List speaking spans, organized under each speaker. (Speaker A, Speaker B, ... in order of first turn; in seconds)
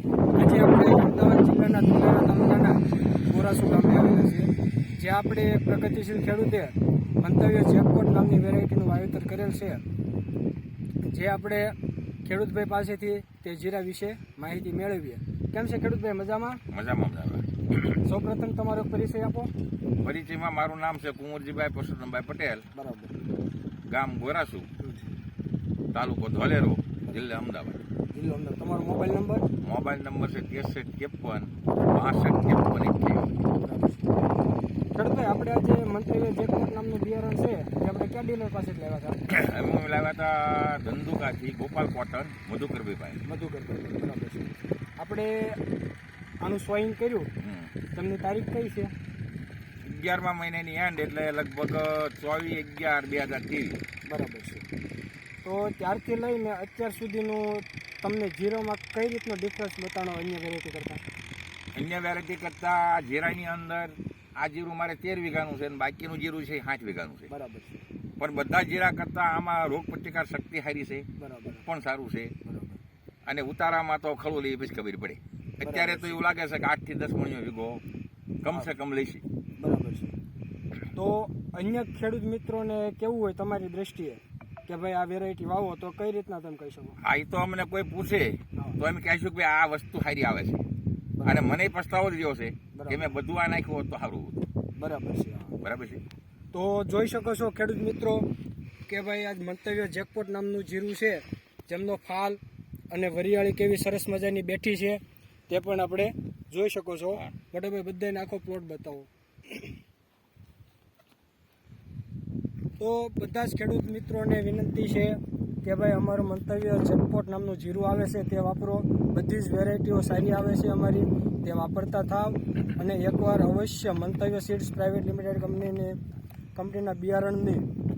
Speaker A: 0.3-9.8, 11.1-16.6, 18.0-19.5, 22.7-23.1, 28.1-29.4, 33.5-34.1, 34.9-39.2, 43.2-45.6, 46.4-47.3, 47.9-48.9, 54.1-54.6, 55.4-61.0, 67.3-67.8, 71.2-71.6, 72.4-72.8, 75.6-76.2, 79.6-80.1, 80.9-87.0, 91.2-91.7, 92.7-93.2, 94.8-95.5, 96.5-98.3, 98.9-102.4, 102.9-109.6, 112.8-126.0, 126.5-127.6
Speaker B: 16.7-17.6, 20.0-22.6, 23.9-24.7, 25.9-27.8, 29.6-33.3, 39.3-43.2, 47.4-47.7, 49.8-53.8, 61.7-67.3, 68.2-71.1, 71.7-72.3, 73.2-77.8, 78.4-79.2, 87.0-90.6, 91.2-94.4, 95.6-96.0